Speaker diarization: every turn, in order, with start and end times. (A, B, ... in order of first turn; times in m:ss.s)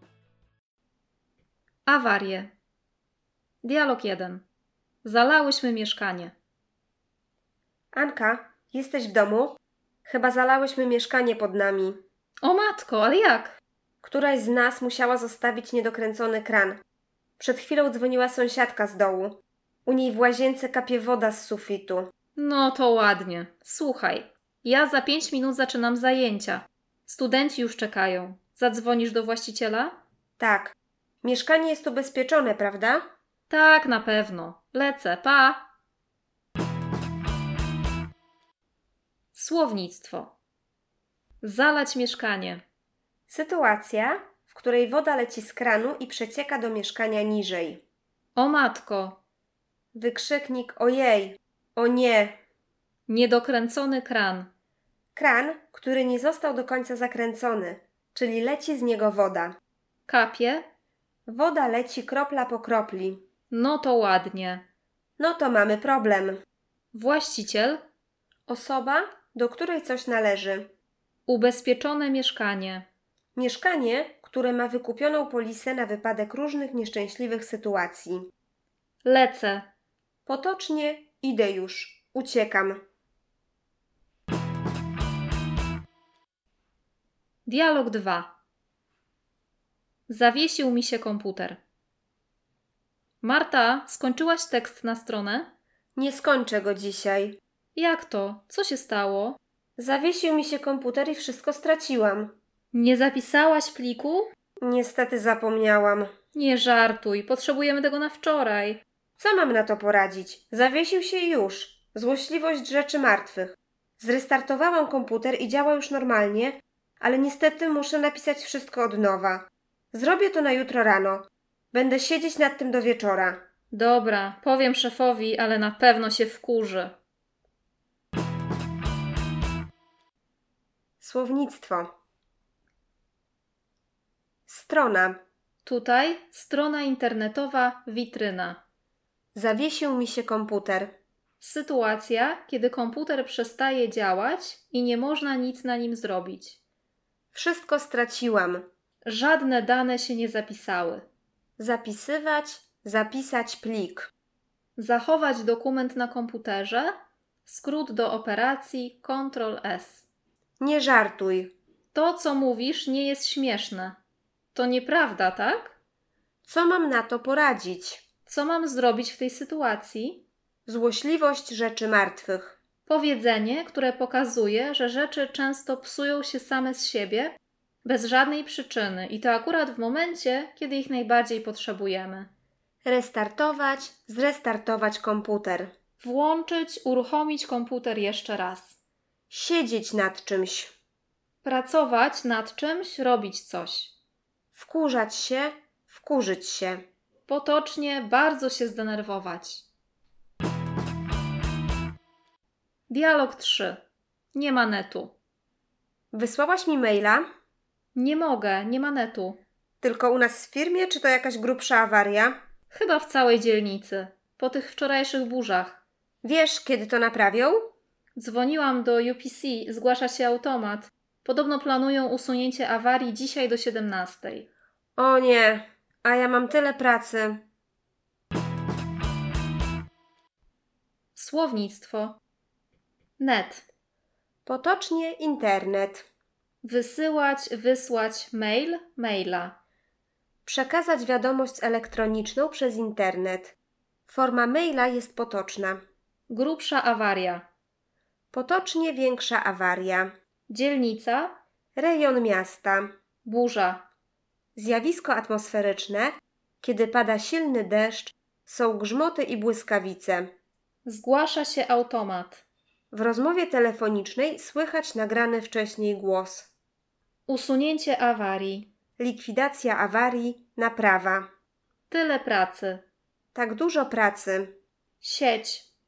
0:01.8-0:02.5 A
0:03.6-0:04.4 A
0:05.0-0:06.3 A
0:07.9-0:12.0 B
0:12.4-0:13.6 A
0:14.0-0:16.8 B
0:17.4-0:22.1 B
0:22.4-0:30.0 A
0:30.4-0:33.0 B
0:33.5-0:35.7 A
0:39.3-0:40.3 A
0:41.4-0:42.6 A
0:43.3-0:47.8 B
0:48.4-0:49.2 A
0:49.9-0:52.4 B
0:53.1-0:54.5 A
0:55.2-0:59.6 B
1:00.1-1:00.6 A
1:01.3-1:03.2 B
1:03.5-1:04.6 A
1:05.2-1:06.4 B
1:06.9-1:07.8 A
1:08.5-1:10.7 B
1:11.3-1:12.8 A
1:13.3-1:18.3 B
1:19.0-1:19.7 A
1:20.2-1:22.8 B
1:27.4-1:28.4 A
1:30.1-1:31.6 A
1:33.2-1:35.5 A
1:36.0-1:37.4 B
1:37.7-1:39.4 A
1:39.8-1:42.3 B
1:42.7-1:44.3 A
1:44.6-1:46.1 B
1:46.3-1:48.8 A
1:49.2-2:03.4 B
2:03.7-2:07.0 A
2:11.0-2:11.9 B
2:14.5-2:15.2 B
2:15.6-2:18.6 A
2:19.3-2:20.9 B
2:21.4-2:26.6 A
2:27.3-2:28.6 B
2:29.0-2:31.0 A
2:31.6-2:34.1 B
2:34.8-2:36.9 A
2:37.4-2:40.0 A
2:40.6-2:41.5 B
2:41.9-2:44.0 A
2:44.5-2:45.8 A
2:46.4-2:48.0 B
2:48.3-2:50.2 A
2:50.6-2:52.6 B
2:52.8-3:02.3 A
3:02.8-3:05.7 B
3:06.0-3:08.8 A
3:09.3-3:10.7 B
3:11.4-3:13.9 A
3:14.5-3:16.8 B
3:17.3-3:19.6 A
3:22.9-3:25.2 A
3:26.1-3:27.2 B
3:27.9-3:29.4 A
3:29.8-3:32.4 B
3:32.7-3:35.8 A
3:36.2-3:37.7 B
3:38.2-3:44.5 A
3:45.0-3:47.4 B
3:51.1-3:52.2 A
3:53.2-3:53.6 A
3:54.4-3:56.0 B
3:56.6-3:59.6 A
4:00.4-4:03.6 B
4:04.1-4:05.8 B
4:06.3-4:07.5 A
4:08.3-4:10.1 B
4:10.5-4:11.4 A
4:11.8-4:12.9 B
4:13.2-4:13.9 A
4:14.6-4:20.3 B
4:20.8-4:22.4 A
4:22.9-4:26.5 B
4:27.3-4:28.7 A
4:29.0-4:31.3 B
4:31.9-4:32.8 A
4:33.3-4:34.5 B
4:35.0-4:35.7 A